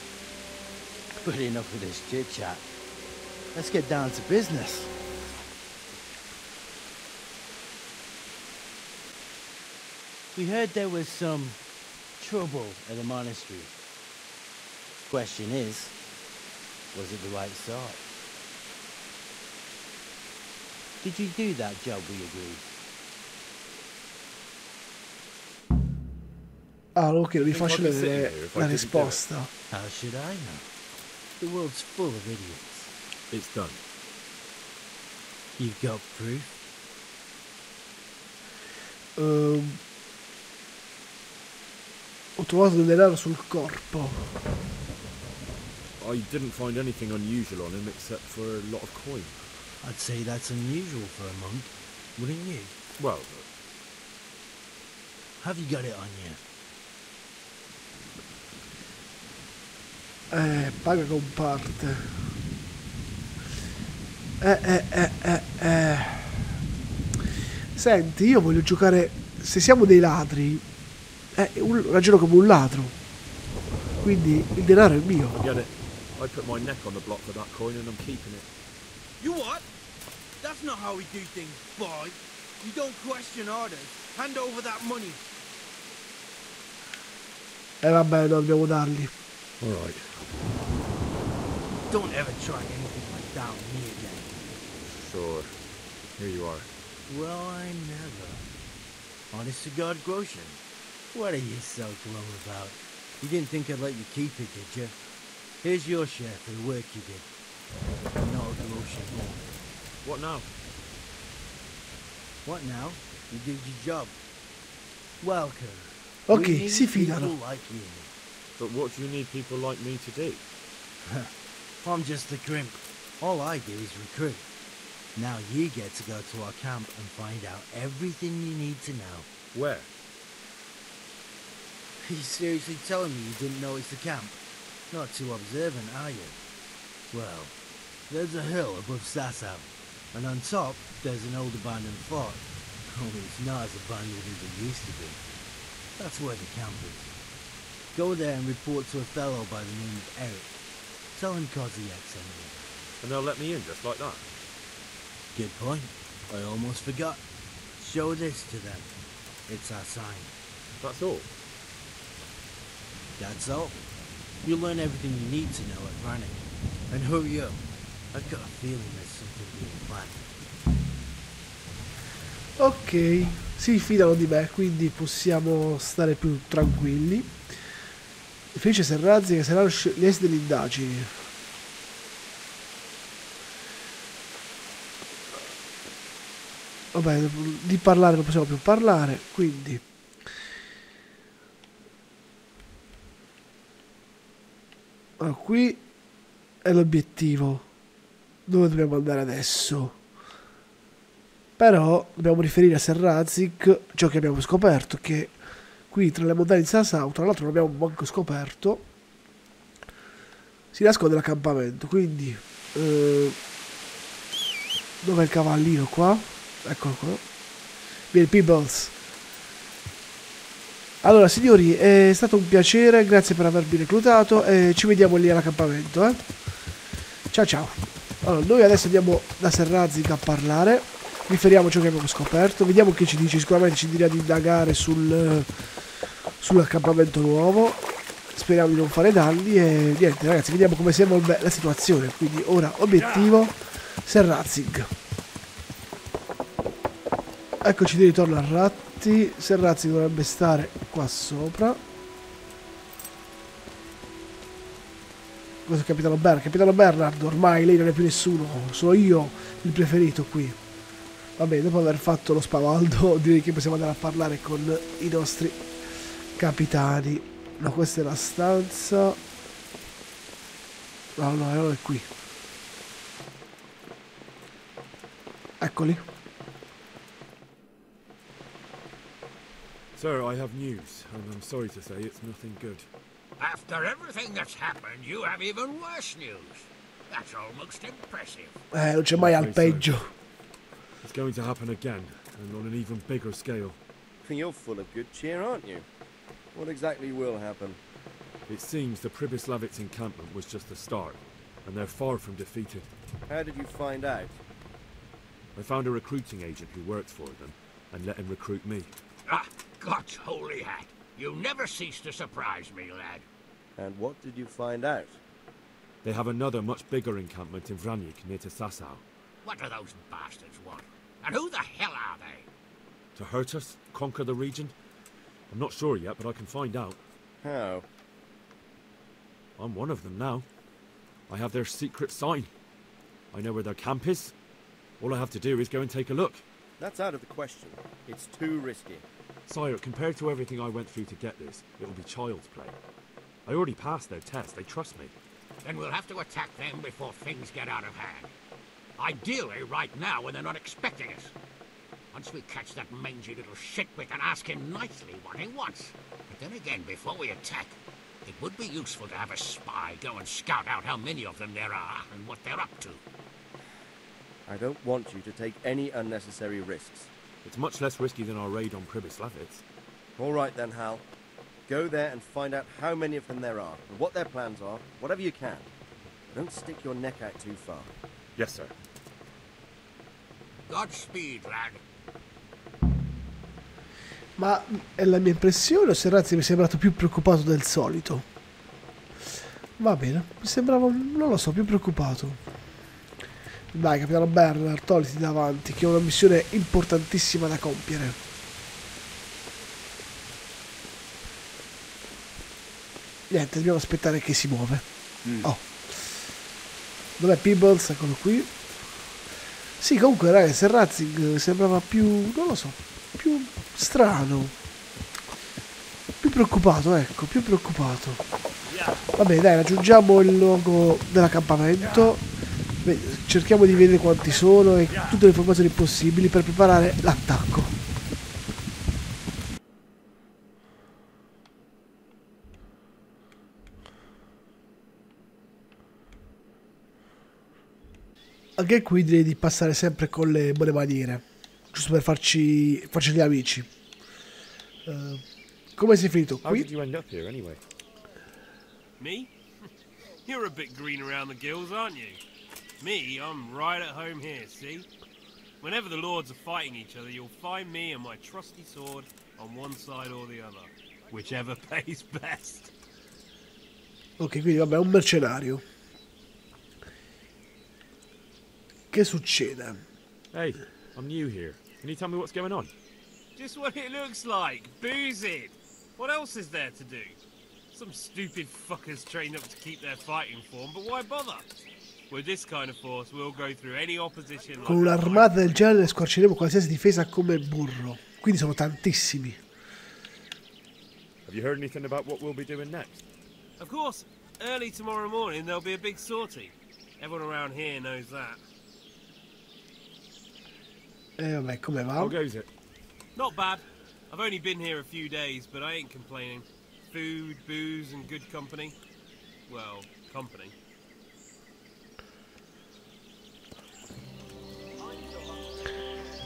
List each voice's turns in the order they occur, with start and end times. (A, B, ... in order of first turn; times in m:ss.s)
0:01.2-0:02.6 A
0:03.5-0:04.9 A
0:10.3-0:11.6 A
0:12.2-0:13.7 A
0:15.1-0:16.0 A
0:16.9-0:18.0 A
0:21.0-0:22.6 A
0:26.9-0:29.5 B
0:27.4-0:29.2 C
0:29.7-0:30.6 A
0:31.4-0:32.9 A
0:33.3-0:33.8 C
0:35.6-0:36.6 A
0:39.2-0:39.8 B
0:42.4-0:44.3 B
0:46.0-0:49.4 C
0:49.8-0:52.7 A
0:53.0-0:53.4 C
0:55.4-0:56.4 A
1:00.3-1:02.2 B
1:04.4-1:06.5 B
1:07.7-1:10.6 B
1:11.3-1:13.0 B
1:14.0-1:15.4 B
1:15.3-1:18.5 C
1:19.2-1:19.6 A
1:20.4-1:25.2 A
1:27.8-1:29.1 B
1:29.6-1:30.4 C
1:31.9-1:34.5 A
1:34.9-1:35.5 C
1:36.2-1:36.7 C
1:37.1-1:38.4 A
1:39.3-1:40.6 A
1:41.1-1:45.0 A
1:45.6-1:47.3 A
1:48.1-1:49.5 A
1:50.0-1:50.5 C
1:52.4-1:54.2 A
1:55.2-1:58.1 A
1:56.3-1:57.3 B
1:58.6-2:00.4 C
2:01.8-2:04.5 A
2:05.1-2:09.3 A
2:09.5-2:09.9 C
2:12.0-2:14.4 A
2:14.9-2:16.4 A
2:17.1-2:17.5 A
2:18.1-2:25.2 A
2:26.0-2:27.1 A
2:27.9-2:30.6 A
2:31.1-2:32.6 A
2:33.0-2:34.2 C
2:35.3-2:37.2 A
2:37.8-2:38.9 A
2:39.5-2:40.3 A
2:40.8-2:41.3 C
2:43.2-2:43.8 A
2:44.4-2:50.3 A
2:52.6-2:57.4 B
2:58.5-3:01.2 B
3:06.9-3:09.8 B
3:15.2-3:15.8 B
3:16.6-3:17.6 B
3:18.5-3:20.0 B
3:21.6-3:25.3 B
3:25.9-3:28.8 B
3:30.7-3:33.4 B
3:35.0-3:37.2 B
3:38.1-3:38.9 B
3:41.0-3:46.3 B
3:47.3-3:55.9 B
3:56.4-4:04.9 B
4:07.6-4:11.8 B
4:15.6-4:20.6 B
4:21.4-4:29.2 B
4:31.2-4:32.1 B
4:35.6-4:36.0 B
4:39.9-4:42.9 C
4:43.4-4:48.5 D
4:48.7-4:50.1 B
4:49.1-4:49.9 C
4:51.0-4:53.8 C
4:54.2-4:55.8 E
4:56.5-4:57.8 E
4:58.5-5:02.9 C
5:03.3-5:04.4 E
5:05.5-5:08.9 C
5:09.3-5:13.2 D
5:13.8-5:15.2 E
5:16.0-5:19.0 C
5:19.4-5:22.5 D
5:23.2-5:24.7 C
5:25.5-5:27.0 C
5:27.4-5:27.8 E
5:29.6-5:30.4 C
5:31.3-5:32.5 C
5:33.3-5:34.3 C
5:35.0-5:36.4 C
5:36.8-5:39.0 E
5:39.5-5:42.8 C
5:43.4-5:45.1 C
5:45.6-5:48.3 D
5:49.0-5:51.3 D
5:52.1-6:03.0 D
6:04.5-6:07.1 E
6:07.4-6:09.6 C
6:10.2-6:11.0 E
6:11.7-6:15.7 E
6:16.3-6:17.9 E
6:18.4-6:18.7 C
6:20.7-6:21.8 D
6:24.4-6:28.2 B
6:29.8-6:32.4 B
6:33.7-6:38.2 B
6:43.3-6:44.8 B
6:45.4-6:46.2 B
6:47.2-6:48.6 B
6:49.8-6:54.5 B
6:56.2-6:58.2 B
6:59.1-7:02.2 B
7:02.8-7:07.7 B
7:18.6-7:23.7 B
7:24.8-7:25.2 B
7:25.8-7:26.7 B
7:26.4-7:27.6 C
7:29.0-7:29.3 F
7:30.2-7:32.2 F
7:32.8-7:34.9 F
7:35.6-7:42.7 F
7:44.2-7:45.6 B
7:48.9-7:49.8 B
7:50.3-7:52.7 C
7:53.4-7:57.2 F
7:57.7-8:01.5 F
8:02.1-8:05.6 F
8:04.6-8:09.4 B
8:11.2-8:13.0 C
8:13.6-8:18.4 F
8:21.2-8:22.2 B
8:22.0-8:22.5 C
8:23.2-8:28.8 F
8:29.5-8:30.5 F
8:34.8-8:35.4 F